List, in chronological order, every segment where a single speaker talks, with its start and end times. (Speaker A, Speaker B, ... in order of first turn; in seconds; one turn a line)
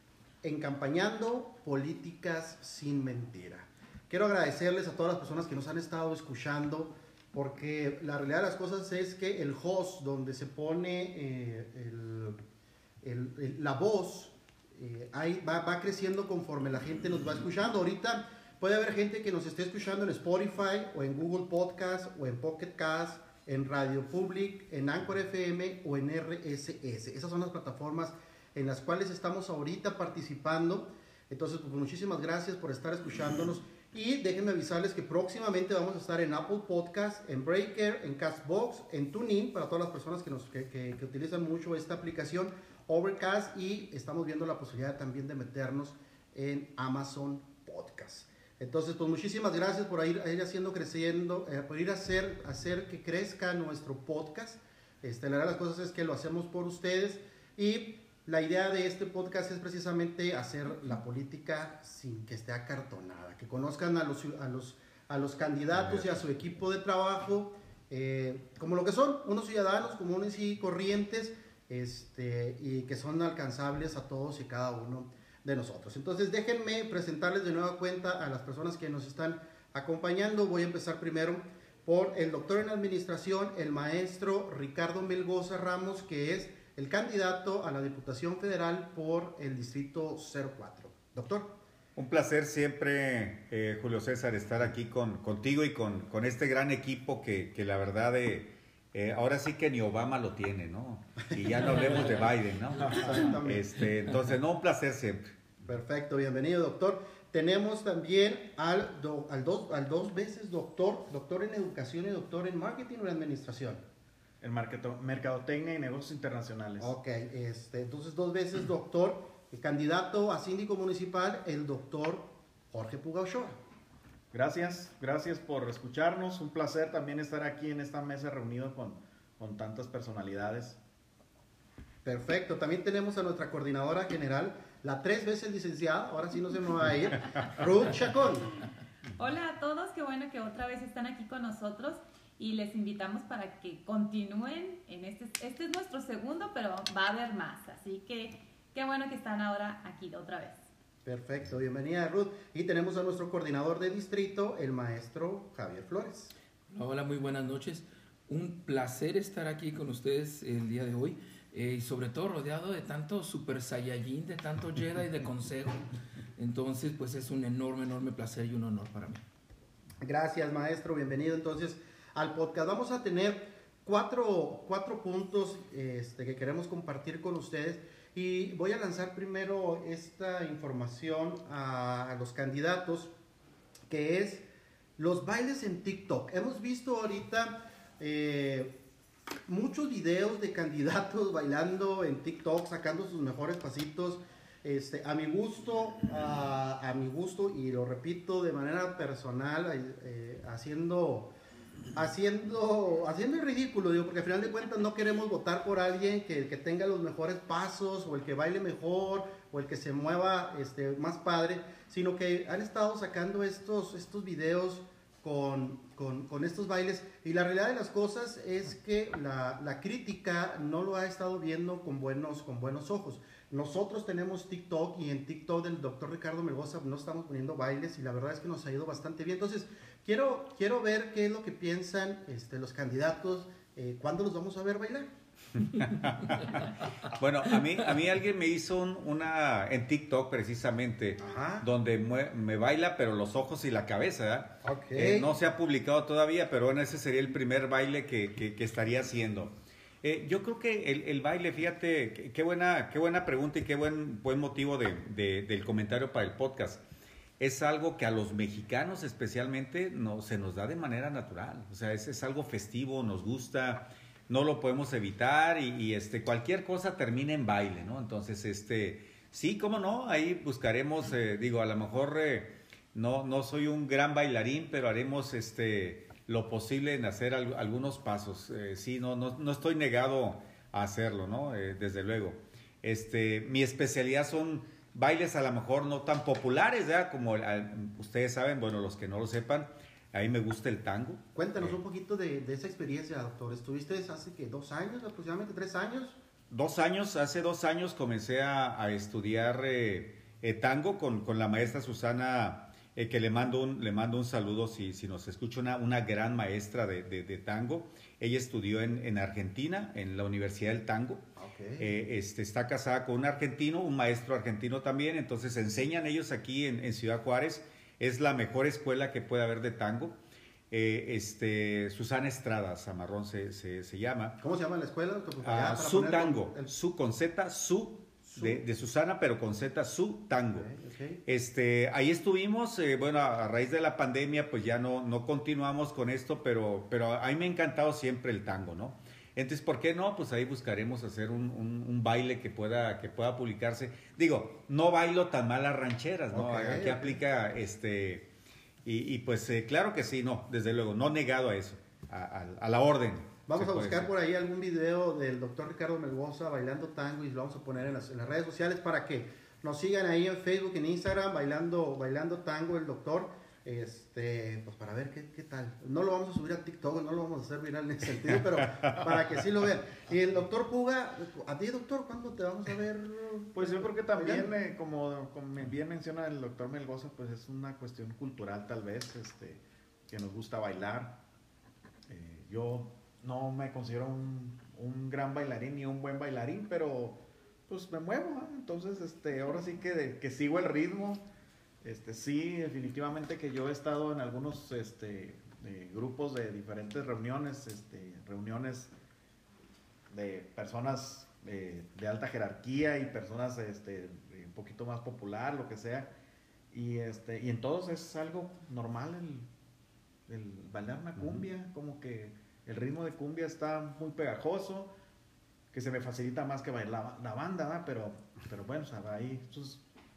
Speaker A: 0.4-12.4
Speaker A: 13.0-91.6
Speaker B: 92.0-105.3
Speaker A: 102.8-103.7
Speaker A: 105.7-113.8
Speaker C: 114.4-116.9
Speaker A: 116.8-123.6
Speaker C: 124.3-130.8
Speaker A: 132.0-138.6
Speaker D: 139.2-150.6
Speaker A: 151.1-156.3
Speaker E: 156.7-169.2
Speaker A: 170.0-183.1
Speaker A: 183.9-184.5
Speaker A: 185.0-188.8
Speaker A: 189.5-201.3
Speaker A: 201.9-235.1
Speaker B: 235.6-256.8
Speaker A: 241.2-241.7
Speaker A: 244.6-245.3
Speaker B: 257.4-291.7
Speaker A: 291.4-296.2
Speaker B: 296.5-311.2
Speaker A: 311.4-311.9
Speaker B: 311.8-320.2
Speaker B: 320.7-324.4
Speaker A: 324.4-326.7
Speaker B: 325.4-330.7
Speaker A: 328.3-328.6
Speaker A: 330.5-331.2
Speaker B: 331.3-348.3
Speaker A: 346.3-347.2
Speaker B: 348.8-354.1
Speaker A: 353.5-374.5
Speaker C: 373.6-381.2
Speaker C: 382.1-391.3
Speaker C: 391.8-398.9
Speaker C: 400.1-406.1
Speaker C: 406.7-409.5
Speaker C: 410.3-414.9
Speaker B: 411.2-411.5
Speaker C: 415.7-419.8